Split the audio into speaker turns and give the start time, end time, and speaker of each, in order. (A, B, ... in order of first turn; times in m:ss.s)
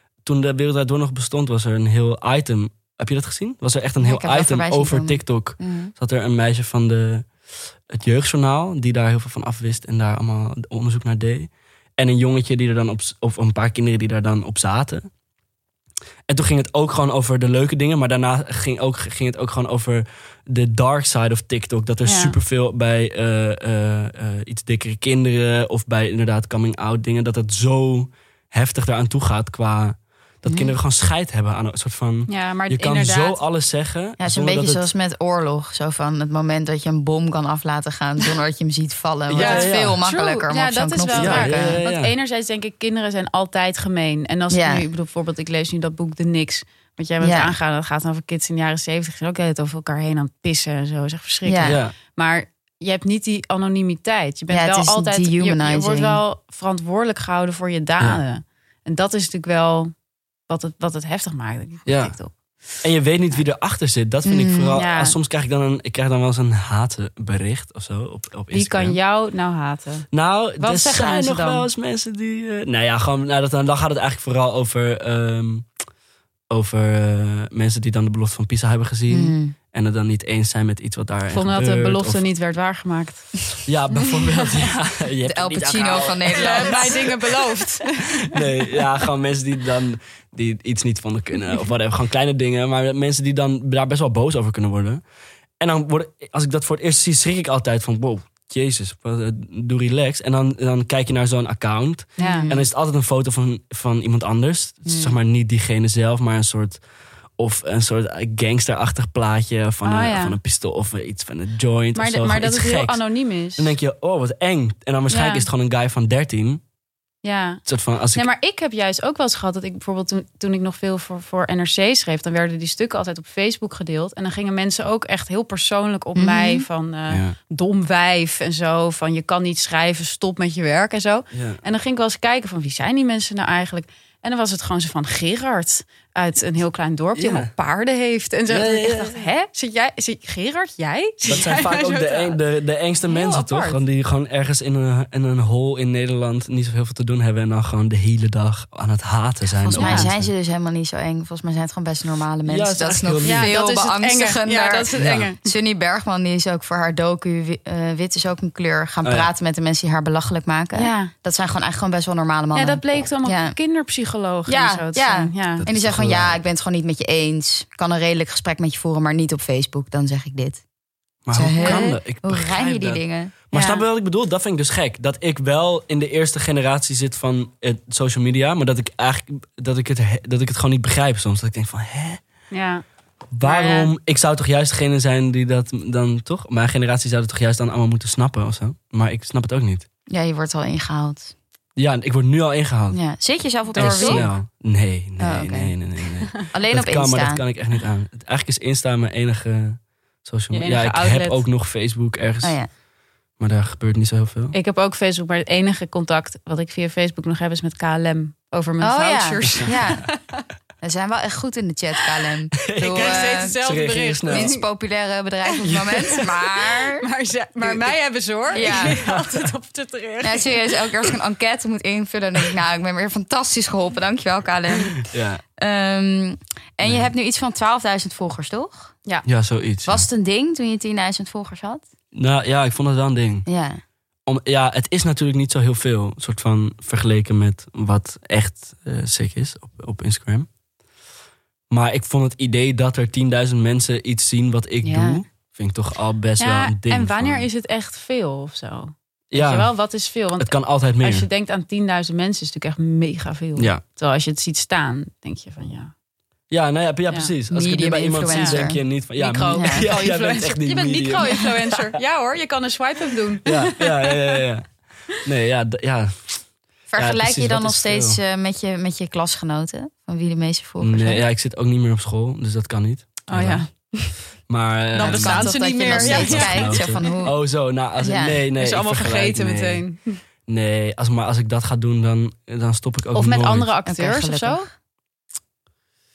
0:00.2-0:07.3 A
0:04.0-0:05.9 B
0:07.9-0:15.1 A
0:16.3-0:34.8 A
0:22.0-0:22.4 C
0:30.4-0:30.7 B
0:32.3-0:33.4 C
0:34.2-0:41.8 B
0:39.3-0:40.0 A
0:39.4-0:59.9 C
0:41.1-0:42.1 A
0:44.5-0:44.8 B
0:47.2-0:47.5 B
0:51.4-0:51.8 B
0:51.6-0:51.9 A
0:54.5-0:56.2 B
1:00.5-1:02.3 C
1:01.8-1:02.2 A
1:02.8-1:09.0 A
1:04.2-1:04.8 B
1:04.8-1:05.2 C
1:08.5-1:11.6 C
1:10.1-1:15.7 A
1:16.5-1:22.2 A
1:19.1-1:19.5 B
1:21.3-1:23.3 C
1:23.6-1:27.1 A
1:24.0-1:24.5 C
1:25.2-1:27.1 B
1:26.3-1:28.8 C
1:28.2-1:35.0 A
1:35.6-1:46.8 A
1:42.2-1:42.5 C
1:42.2-1:42.6 B
1:44.8-1:45.1 B
1:47.4-1:53.0 A
1:49.8-1:50.4 C
1:51.9-1:53.8 C
1:53.6-1:56.6 A
1:55.1-1:55.5 C
1:57.2-1:57.6 C
1:57.6-1:58.3 A
1:58.1-2:22.4 C
2:06.2-2:06.6 B
2:07.1-2:07.3 A
2:11.3-2:11.6 A
2:17.2-2:17.5 A
2:18.5-2:19.3 A
2:21.2-2:30.3 A
2:23.1-2:23.8 C
2:29.6-2:30.1 C
2:29.7-2:43.6 B
2:32.4-2:33.5 A
2:33.2-2:35.4 C
2:34.9-2:35.3 A
2:39.0-2:39.3 A
2:40.7-2:41.1 C
2:42.5-2:45.6 C
2:44.5-2:50.6 B
2:45.6-2:46.4 A
2:51.2-3:02.2 A
2:51.3-2:53.4 B
2:51.6-2:52.0 C
2:53.5-2:53.8 C
3:02.5-3:02.8 C
3:03.3-3:09.8 A
3:03.4-3:03.9 C
3:10.1-3:11.3 B
3:11.8-3:13.0 A
3:12.9-3:14.3 B
3:13.7-3:14.3 C
3:13.8-3:22.6 A
3:15.2-3:15.8 B
3:16.5-3:17.4 B
3:20.5-3:21.4 C
3:22.4-3:22.7 B
3:23.4-3:24.5 A
3:24.5-3:30.4 C
3:28.8-3:30.1 B
3:30.8-3:33.6 B
3:32.6-3:34.5 A
3:32.8-3:34.6 C
3:34.3-3:37.1 B
3:35.6-3:36.0 A
3:35.7-3:40.7 C
3:38.5-3:39.0 B
3:38.6-3:39.5 A
3:40.2-3:49.0 B
3:45.0-3:45.4 A
3:46.8-3:47.1 A
3:49.2-3:50.1 A
3:49.8-3:51.8 B
3:52.1-3:53.4 A
3:53.4-3:53.8 B
3:54.2-4:00.5 A
4:01.7-4:07.5 A
4:04.8-4:05.2 B
4:06.4-4:15.9 C
4:09.3-4:09.7 A
4:10.4-4:11.3 A
4:13.6-4:13.8 A
4:16.5-4:22.0 A
4:17.5-4:18.8 B
4:18.3-4:18.6 C
4:19.2-4:24.4 C
4:19.5-4:19.9 B
4:23.4-4:24.7 A
4:25.2-4:26.4 A
4:26.9-4:31.2 B
4:27.0-4:28.2 A
4:30.8-4:33.6 A
4:33.3-4:34.2 C
4:34.5-4:39.8 A
4:34.9-4:37.2 C
4:35.0-4:37.4 B
4:38.0-4:38.4 B
4:38.6-4:40.2 C
4:40.5-4:43.7 A
4:43.1-4:44.7 C
4:43.8-4:44.7 B